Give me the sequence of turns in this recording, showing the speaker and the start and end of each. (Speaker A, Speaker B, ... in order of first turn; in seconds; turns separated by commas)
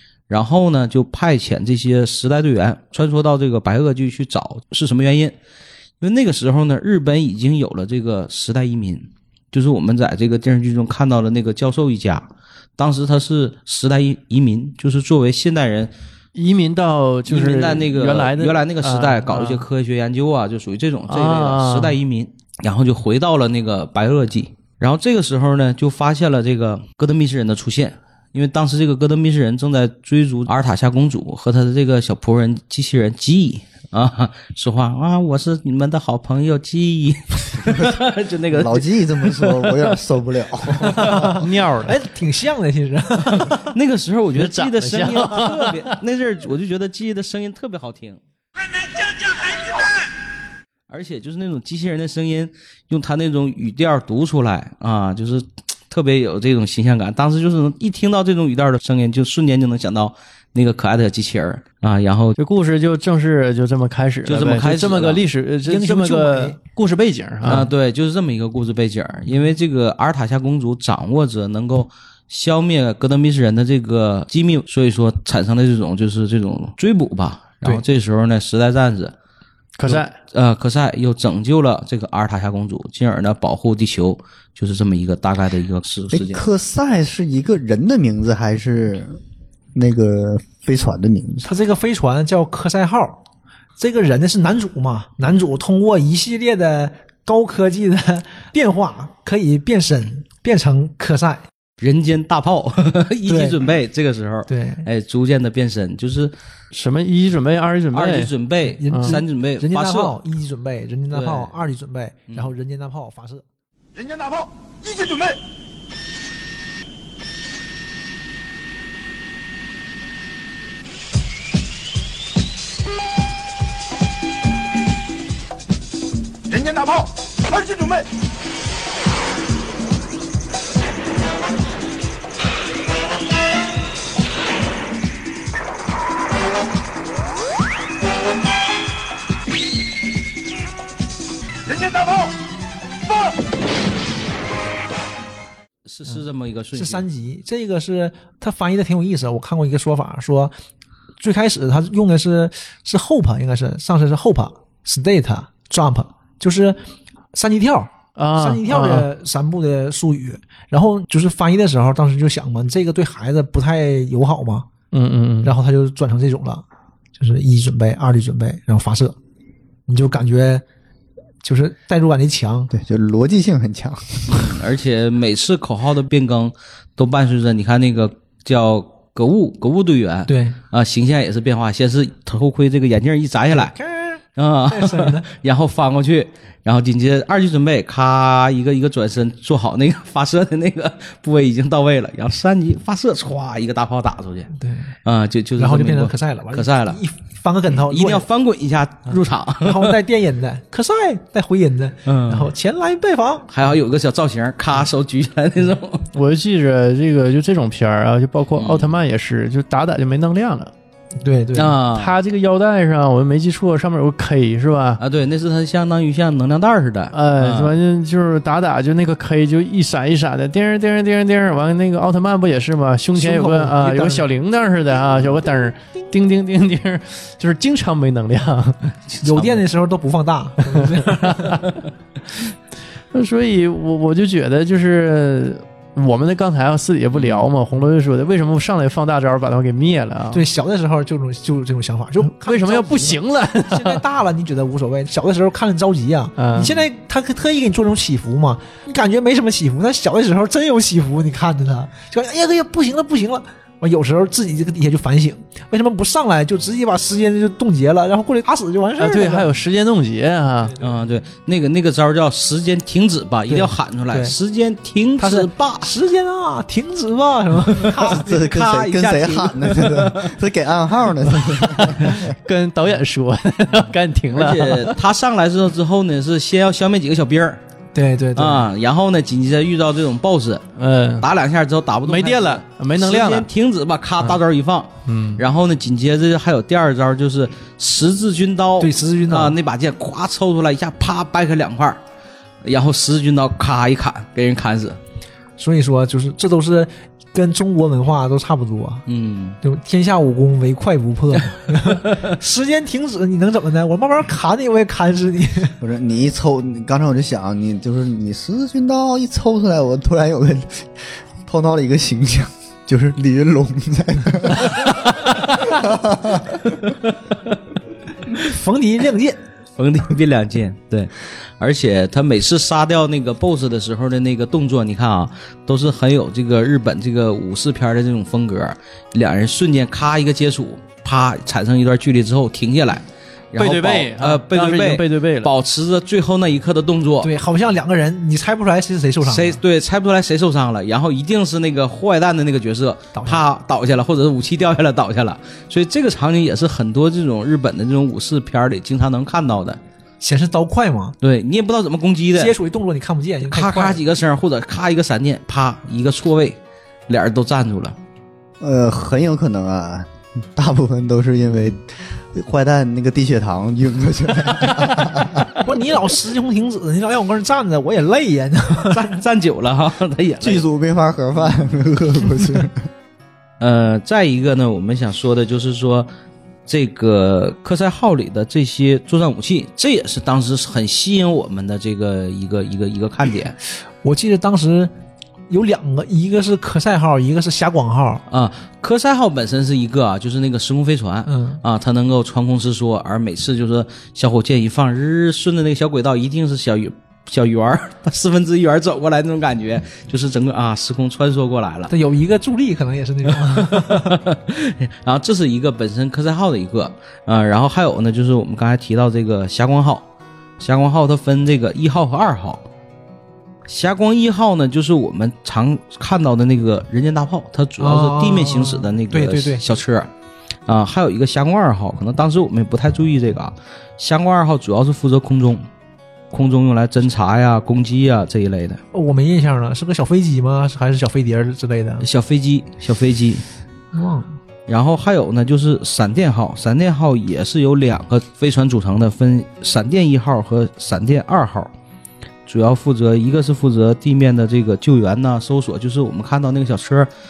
Speaker A: 0.3-5.3, Speaker A: 6.0-15.9, Speaker B: 16.3-19.6, Speaker A: 17.3-39.7, Speaker B: 21.1-22.0, Speaker C: 37.7-37.9, Speaker C: 38.5-41.2, Speaker D: 40.9-43.7, Speaker B: 41.3-42.0, Speaker A: 43.5-48.2, Speaker B: 44.4-46.0, Speaker A: 50.9-62.4, Speaker B: 62.4-67.7, Speaker A: 64.2-65.2, Speaker D: 65.6-66.6, Speaker A: 67.4-79.1, Speaker B: 79.8-80.1, Speaker A: 79.8-86.4, Speaker C: 86.1-89.2, Speaker C: 89.7-91.5, Speaker D: 91.5-93.2, Speaker D: 93.8-101.4, Speaker A: 101.8-106.3, Speaker D: 103.2-103.6, Speaker D: 104.5-104.9, Speaker B: 106.7-108.3, Speaker A: 107.9-110.2, Speaker D: 108.6-113.4, Speaker B: 108.9-109.2, Speaker A: 111.1-111.5, Speaker E: 114.0-115.4, Speaker E: 126.5-128.0, Speaker E: 141.7-142.2, Speaker A: 145.8-147.0, Speaker D: 146.7-150.5, Speaker D: 151.2-156.8, Speaker D: 157.3-164.7, Speaker B: 158.2-159.1, Speaker B: 164.9-165.5, Speaker D: 165.4-166.6, Speaker D: 167.2-169.2, Speaker D: 169.9-170.6, Speaker D: 171.4-172.7, Speaker C: 172.7-174.6, Speaker A: 174.3-183.8, Speaker D: 180.3-180.6, Speaker D: 183.5-185.2, Speaker A: 184.3-194.5, Speaker D: 194.6-194.9, Speaker A: 195.0-197.0, Speaker D: 195.6-198.2, Speaker A: 197.8-200.0, Speaker D: 199.1-203.7, Speaker A: 202.0-202.5, Speaker A: 203.5-206.1, Speaker B: 206.1-210.7, Speaker A: 208.6-208.9, Speaker D: 211.2-211.8, Speaker A: 211.5-212.1, Speaker B: 211.9-215.0, Speaker A: 215.0-217.7, Speaker B: 217.1-228.9, Speaker D: 223.1-224.2, Speaker A: 229.1-229.7, Speaker D: 229.2-231.7, Speaker B: 233.1-240.4, Speaker A: 237.1-237.5, Speaker D: 240.3-259.5, Speaker B: 242.3-244.0, Speaker B: 246.4-246.7, Speaker B: 259.0-260.7, Speaker A: 260.8-265.9, Speaker D: 263.5-264.4, Speaker D: 265.2-268.5, Speaker A: 267.7-270.4, Speaker C: 268.0-272.3, Speaker B: 271.8-275.0, Speaker A: 274.3-277.6, Speaker D: 277.9-278.7, Speaker A: 278.4-280.6, Speaker B: 280.8-281.3, Speaker A: 281.2-292.0, Speaker B: 282.1-283.5, Speaker B: 285.1-285.4, Speaker D: 288.8-289.5, Speaker A: 292.6-295.0, Speaker D: 295.6-299.0, Speaker A: 299.1-299.6, Speaker D: 299.6-305.8, Speaker C: 305.8-316.7, Speaker A: 316.8-317.5, Speaker D: 318.4-319.4, Speaker A: 319.8-337.3, Speaker B: 333.6-335.5, Speaker D: 337.2-339.6, Speaker A: 339.2-349.8, Speaker D: 343.1-343.4, Speaker D: 350.2-351.1, Speaker A: 351.2-352.5, Speaker D: 352.3-354.0, Speaker A: 353.4-357.9, Speaker C: 358.6-365.5, Speaker D: 365.6-369.1, Speaker A: 368.9-370.6, Speaker C: 370.4-372.9, Speaker A: 373.6-376.1, Speaker A: 376.6-383.6, Speaker D: 384.0-384.9, Speaker D: 385.5-388.2, Speaker A: 388.3-401.9, Speaker D: 391.2-391.6, Speaker D: 401.9-404.2, Speaker A: 403.4-410.1, Speaker A: 410.6-412.6, Speaker A: 413.7-420.1, Speaker D: 417.8-419.6, Speaker A: 420.7-425.6, Speaker A: 426.3-428.8, Speaker D: 428.9-432.0, Speaker A: 432.0-433.4, Speaker D: 433.9-434.3, Speaker A: 434.7-441.7, Speaker A: 442.4-447.1